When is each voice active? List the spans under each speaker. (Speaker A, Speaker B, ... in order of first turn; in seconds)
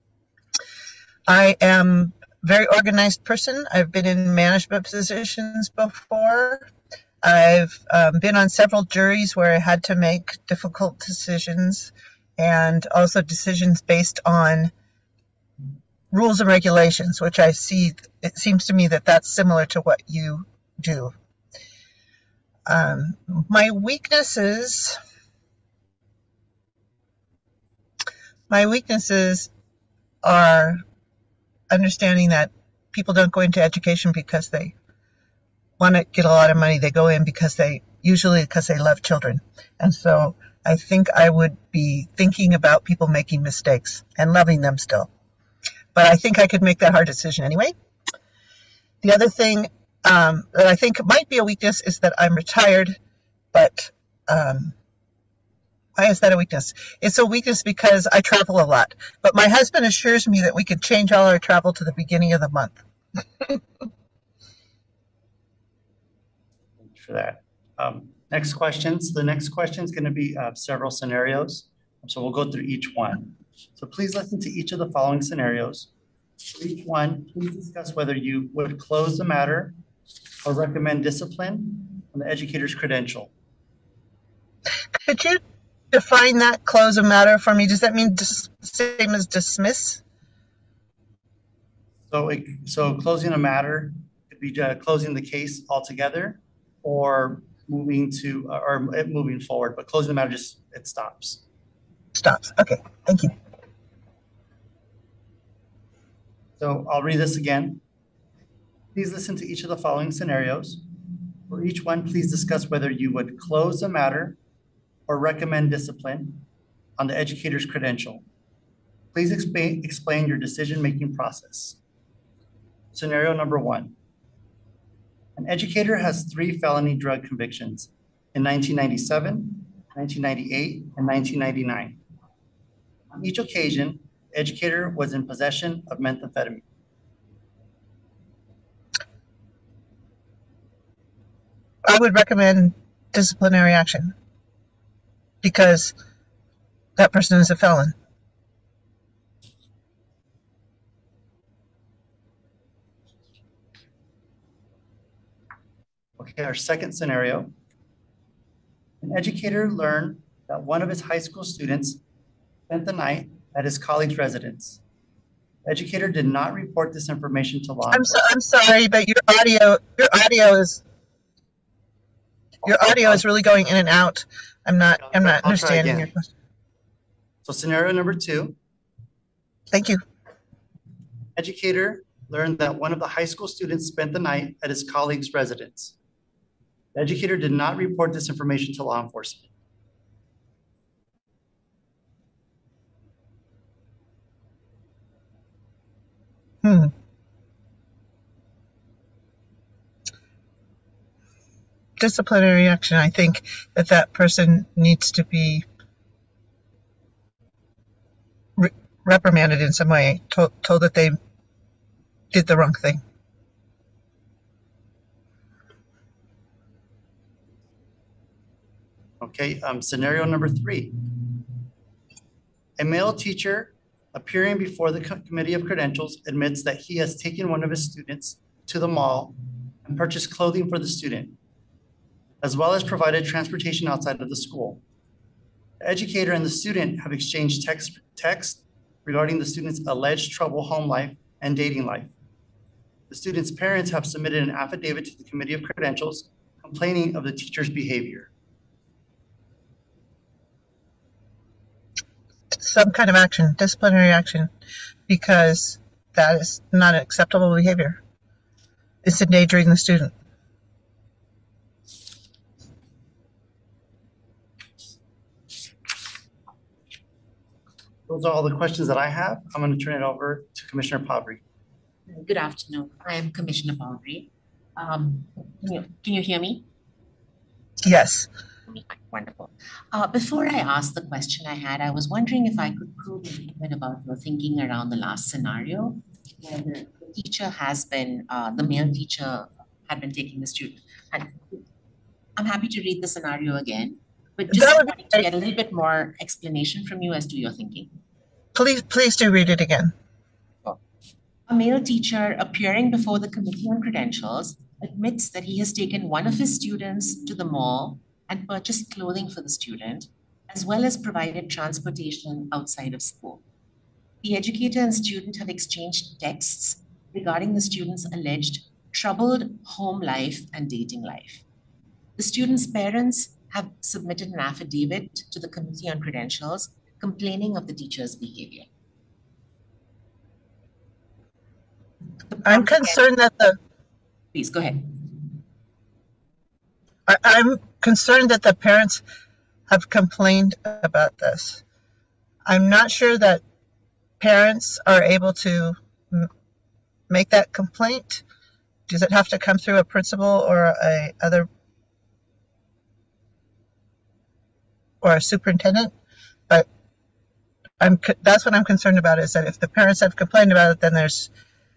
Speaker A: 1.3-6.7, 7.2-14.7, 16.1-21.1, 22.7-25.0, 28.5-29.5, 30.2-30.8, 31.7-34.8, 35.8-45.1, 46.0-47.8, 49.0-53.0, 53.5-54.7, 56.0-62.8, 84.9-90.0, 102.2-103.3, 141.9-144.1, 145.4-145.9, 147.0-147.9, 167.9-170.8, 172.7-176.3, 179.7-180.0, 196.6-196.9, 202.0-205.7, 208.6-211.2, 212.3-213.0, 252.5-254.5, 255.1-258.0, 259.0-260.1, 277.8-278.3, 294.5-295.2, 298.5-299.9, 332.4-333.6, 337.1-339.0, 339.7-341.6, 342.5-343.4, 344.2-346.3, 347.1-348.2, 348.9-351.5, 355.0-355.9, 357.8-361.3
Speaker B: 66.8-75.9, 76.5-79.8, 80.4-83.3, 92.1-101.4, 106.6-107.8, 109.0-110.8, 111.5-114.4, 115.1-116.5, 117.0-118.2, 119.1-121.8, 122.9-124.0, 125.4-132.0, 133.1-136.7, 156.2-157.5, 159.0-162.0, 162.7-164.8, 165.7-168.1, 175.0-176.1, 177.4-178.6, 181.4-185.9, 186.9-189.5, 219.2-221.2, 222.8-231.4, 232.4-234.8, 235.8-242.1, 243.1-248.3, 268.1-271.4
Speaker C: 272.1-276.7, 278.7-291.6, 292.4-297.9, 301.5-313.4, 314.2-321.4, 322.2-328.7, 332.3-333.0, 334.3-335.3